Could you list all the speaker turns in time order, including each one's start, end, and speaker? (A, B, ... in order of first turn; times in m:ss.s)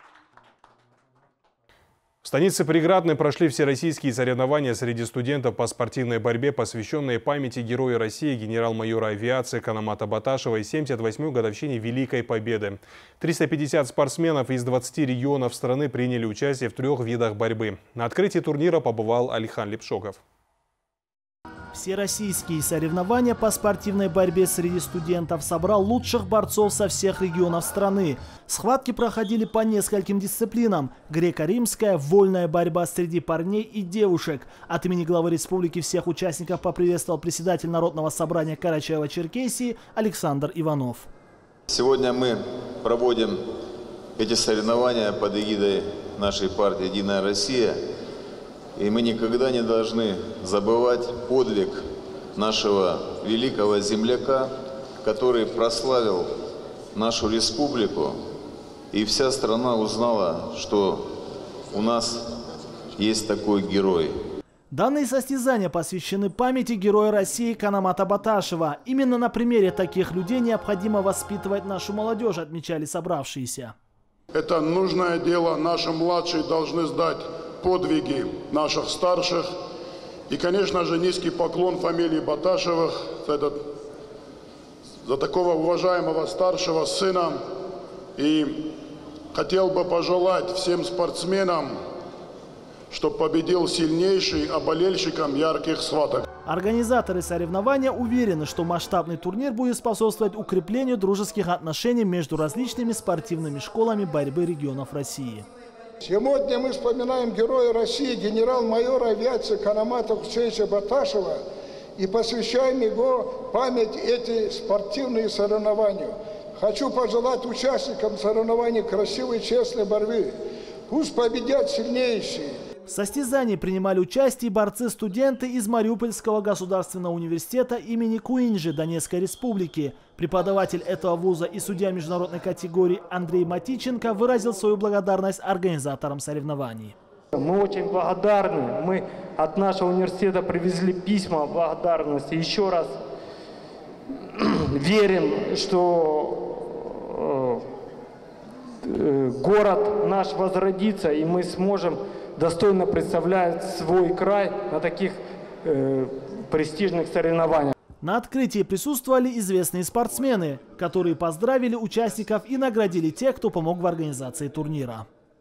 0:02.2-0:20.2 A
0:21.7-0:41.1 B
0:41.7-0:43.4 C
0:44.2-0:47.8 C
0:48.8-0:56.3 C
0:56.9-0:58.2 C
0:58.9-1:01.1 C
1:01.7-1:02.3 C
1:03.0-1:04.2 C
1:04.7-1:13.7 B
1:14.3-1:19.5 D
1:20.3-1:23.6 D
1:25.0-1:27.4 D
1:28.2-1:28.7 D
1:29.3-1:31.8 D
1:32.9-1:36.3 D
1:36.4-1:45.5 B
1:46.0-1:51.4 E
1:52.0-2:00.3 E
2:00.9-2:02.5 E
2:02.9-2:17.0 B
2:17.3-2:23.0 F
2:24.4-2:27.6 F
2:28.8-2:37.7 F
2:38.0-2:45.1 B